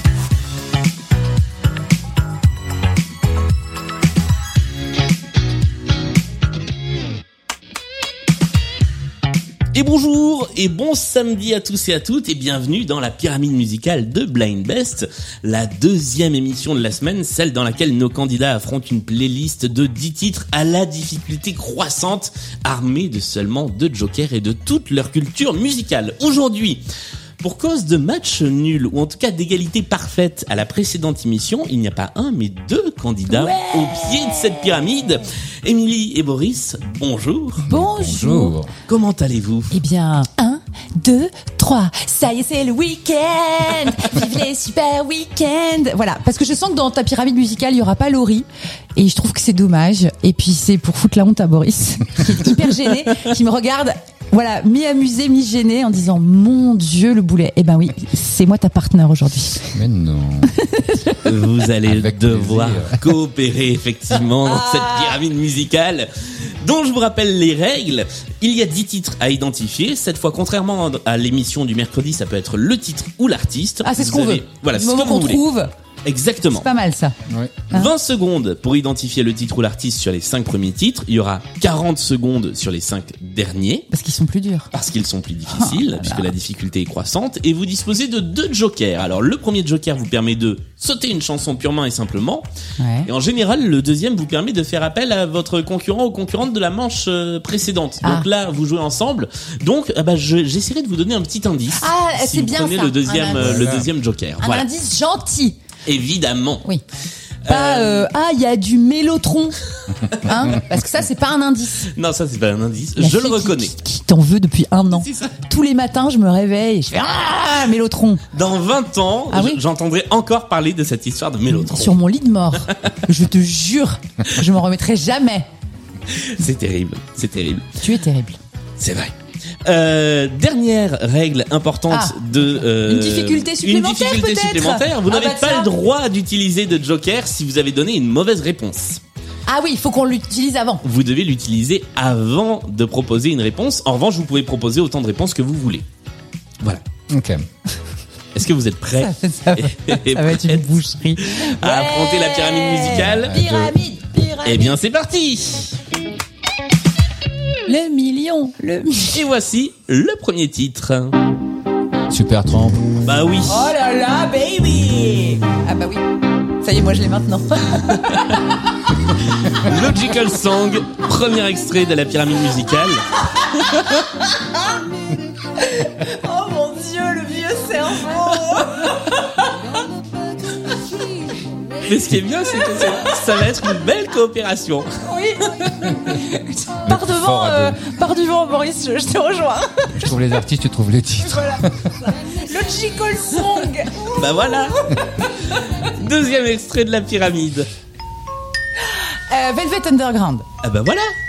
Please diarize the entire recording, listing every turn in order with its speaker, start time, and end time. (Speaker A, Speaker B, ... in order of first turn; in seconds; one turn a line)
Speaker A: 9.7-26.8
Speaker A: 27.4-37.6
Speaker B: 33.3-34.7
Speaker C: 37.6-38.7
Speaker B: 37.7-38.6
Speaker A: 38.9-39.7
Speaker B: 39.7-59.8
Speaker A: 52.9-53.2
Speaker C: 59.7-60.5
Speaker B: 60.5-61.3
Speaker A: 61.2-75.5
Speaker C: 61.9-63.0
Speaker B: 64.4-65.2
Speaker B: 73.8-75.7
Speaker A: 76.0-76.7
Speaker B: 76.5-77.2
Speaker C: 77.3-77.7
Speaker A: 77.7-83.9
Speaker B: 83.9-84.7
Speaker A: 84.7-92.5
Speaker B: 85.5-86.3
Speaker B: 92.8-93.1
Speaker A: 93.1-104.7
Speaker B: 98.0-98.3
Speaker B: 101.8-103.7
Speaker C: 103.4-103.9
Speaker B: 104.4-105.6
Speaker A: 105.9-106.6
Speaker A: 107.5-108.1
Speaker B: 107.5-109.6
Speaker B: 110.2-111.9
Speaker A: 111.9-113.7
Speaker B: 113.0-118.2
Speaker A: 114.9-115.3
Speaker A: 118.3-122.0
Speaker B: 119.3-119.6
Speaker B: 121.5-125.5
Speaker A: 126.1-127.7
Speaker B: 127.8-128.4
Speaker A: 128.8-129.1
Speaker A: 129.7-139.0
Speaker B: 131.9-135.7
Speaker B: 139.5-140.8
Speaker A: 140.8-145.8
Speaker C: 147.1-147.4
Speaker A: 148.3-150.6
Speaker B: 149.0-154.8
Speaker A: 151.2-153.3
Speaker C: 153.2-153.8
Speaker A: 154.4-155.8
Speaker B: 157.7-159.2
Speaker A: 159.1-161.1
Speaker C: 162.1-162.9
Speaker A: 163.0-163.7
Speaker B: 163.5-166.0
Speaker B: 166.6-168.5
Speaker A: 169.4-173.0
Speaker A: 173.6-174.0
Speaker B: 174.0-174.6
Speaker B: 175.6-179.2
Speaker A: 181.8-184.9
Speaker B: 185.0-190.2
Speaker C: 186.8-187.8
Speaker C: 189.9-192.1
Speaker B: 191.2-194.3
Speaker A: 194.0-195.0
Speaker B: 194.9-195.2
Speaker A: 195.8-197.7
Speaker B: 199.3-200.5
Speaker A: 200.6-201.1